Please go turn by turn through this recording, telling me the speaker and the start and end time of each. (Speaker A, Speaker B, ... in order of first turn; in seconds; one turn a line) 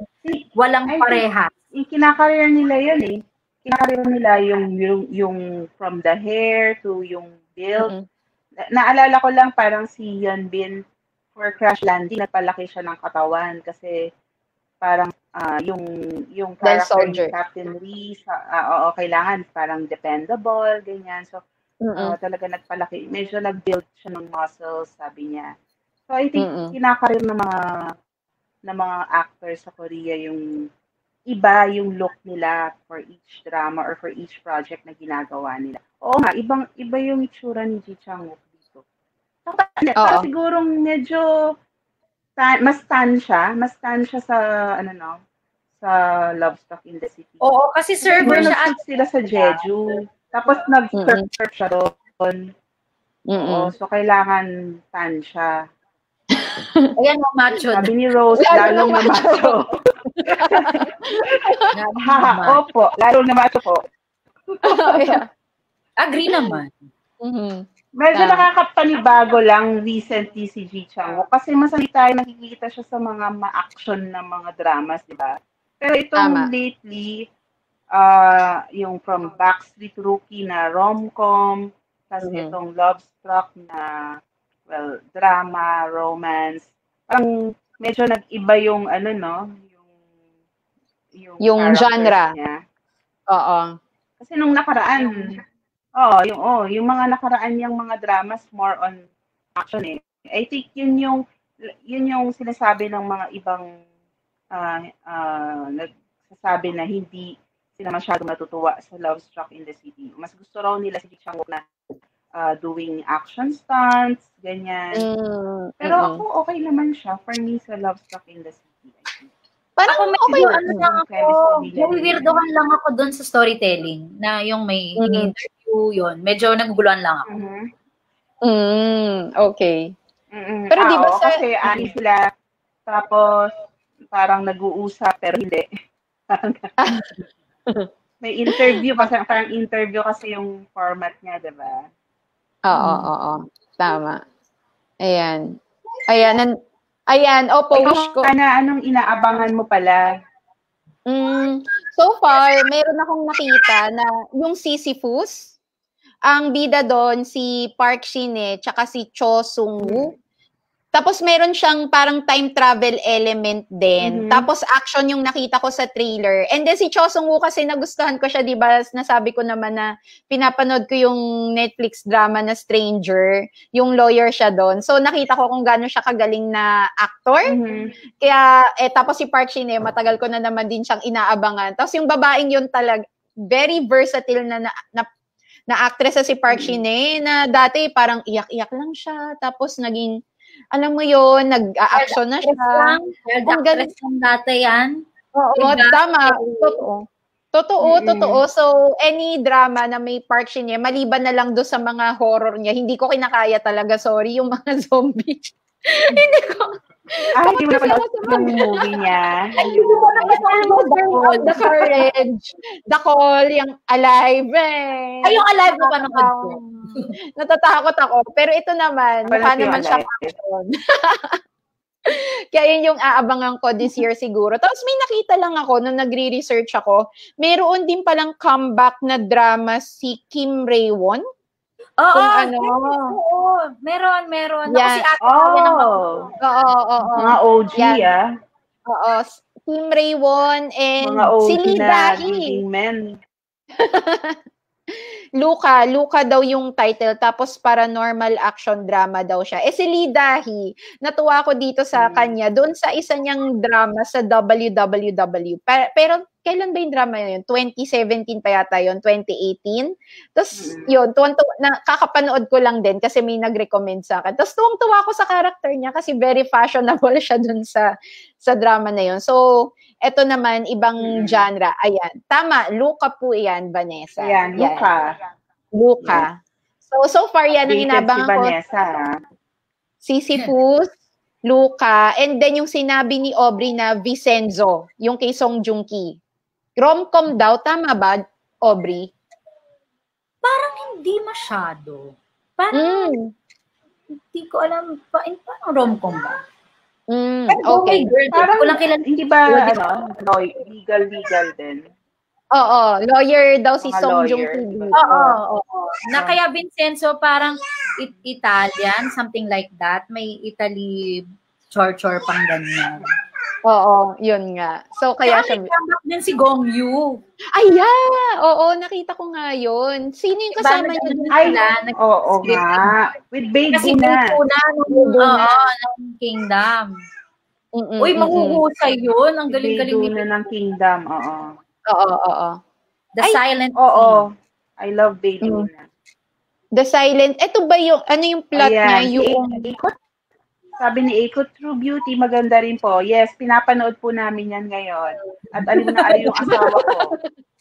Speaker A: 0.2-1.2
Speaker B: 0.6-1.5
Speaker A: 1.8-3.1
Speaker A: 3.6-7.9
Speaker A: 8.7-10.8
Speaker A: 11.3-13.9
Speaker A: 14.8-21.4
Speaker C: 16.6-17.3
Speaker C: 21.9-22.1
Speaker A: 21.9-25.5
Speaker A: 26.1-27.9
Speaker C: 26.4-26.7
Speaker A: 28.7-30.4
Speaker A: 31.3-38.8
Speaker A: 39.5-41.2
Speaker C: 40.0-40.3
Speaker A: 42.4-45.1
Speaker A: 45.8-47.4
Speaker B: 47.4-48.8
Speaker A: 48.0-52.4
Speaker C: 48.2-48.5
Speaker C: 51.0-51.2
Speaker C: 53.3-53.7
Speaker A: 53.4-55.5
Speaker C: 56.4-56.9
Speaker B: 57.0-57.9
Speaker A: 57.7-59.7
Speaker C: 58.4-59.5
Speaker C: 60.2-61.7
Speaker A: 60.3-61.3
Speaker B: 61.7-62.6
Speaker A: 62.0-63.8
Speaker A: 64.5-65.2
Speaker C: 64.7-65.2
Speaker B: 66.0-66.7
Speaker C: 67.2-67.6
Speaker A: 68.0-77.2
Speaker C: 68.1-68.5
Speaker C: 76.2-76.5
Speaker A: 78.0-81.6
Speaker A: 82.1-83.8
Speaker C: 82.2-82.5
Speaker A: 84.7-87.3
Speaker A: 87.8-89.7
Speaker A: 91.2-92.5
Speaker C: 91.4-92.3
Speaker C: 93.3-93.7
Speaker A: 94.2-95.4
Speaker A: 96.0-99.0
Speaker A: 99.6-101.2
Speaker A: 101.9-103.6
Speaker A: 104.5-111.6
Speaker A: 112.4-115.0
Speaker C: 115.0-116.2
Speaker A: 115.8-119.3
Speaker C: 119.8-120.9
Speaker B: 119.9-127.3
Speaker A: 121.0-122.3
Speaker C: 125.0-125.3
Speaker A: 127.3-127.6
Speaker C: 128.4-129.8
Speaker A: 130.3-132.2
Speaker C: 130.7-131.9
Speaker A: 132.9-133.4
Speaker A: 134.1-135.6
Speaker A: 136.3-136.7
Speaker C: 136.8-137.1
Speaker A: 138.2-141.7
Speaker C: 138.5-139.1
Speaker C: 142.7-144.2
Speaker A: 142.8-143.0
Speaker C: 145.0-145.4
Speaker C: 146.1-146.5
Speaker C: 147.1-148.3
Speaker A: 147.7-150.0
Speaker C: 151.1-155.5
Speaker C: 156.3-160.1
Speaker A: 159.8-160.1
Speaker C: 160.9-177.5
Speaker A: 164.0-164.4
Speaker A: 177.5-177.8
Speaker C: 178.2-185.1
Speaker C: 185.7-190.1
Speaker C: 190.7-193.9
Speaker B: 191.9-194.9
Speaker C: 195.3-197.0
Speaker B: 195.6-196.8
Speaker C: 197.5-209.0
Speaker A: 197.8-198.4
Speaker A: 207.4-210.4
Speaker B: 209.6-212.0
Speaker C: 210.2-216.8
Speaker B: 215.2-217.1
Speaker C: 217.4-221.4
Speaker A: 219.3-220.3
Speaker C: 222.1-231.2
Speaker B: 232.0-235.9
Speaker C: 232.1-233.0
Speaker C: 234.7-235.0
Speaker A: 235.3-235.8
Speaker C: 236.4-238.0
Speaker A: 237.2-238.2
Speaker C: 238.9-242.5
Speaker A: 241.0-243.1
Speaker C: 243.8-244.4
Speaker C: 244.9-267.9
Speaker A: 251.9-252.3
Speaker A: 260.5-260.9
Speaker C: 268.4-269.4
Speaker C: 270.1-274.9
Speaker A: 271.1-271.4
Speaker A: 274.2-275.0
Speaker C: 275.7-276.3
Speaker C: 276.9-278.5
Speaker A: 277.7-279.0
Speaker C: 280.0-280.9
Speaker C: 281.5-286.1
Speaker C: 286.8-289.1
Speaker B: 290.4-293.1
Speaker C: 292.7-293.3
Speaker B: 294.3-296.4
Speaker C: 297.1-298.1
Speaker B: 297.5-300.1
Speaker A: 298.3-301.8
Speaker C: 302.5-305.4
Speaker A: 303.8-304.9
Speaker B: 304.9-313.1
Speaker C: 313.7-315.7
Speaker B: 315.2-317.1
Speaker C: 317.5-321.4
Speaker B: 320.6-322.9
Speaker A: 321.4-324.2
Speaker B: 323.7-326.9
Speaker C: 324.9-325.5
Speaker C: 327.8-328.6
Speaker B: 328.0-330.2
Speaker A: 329.5-331.4
Speaker C: 331.9-332.6
Speaker B: 333.1-334.2
Speaker A: 333.8-334.2
Speaker A: 334.8-335.9
Speaker C: 336.8-339.7
Speaker A: 338.6-339.9
Speaker A: 340.8-347.1
Speaker C: 345.6-347.2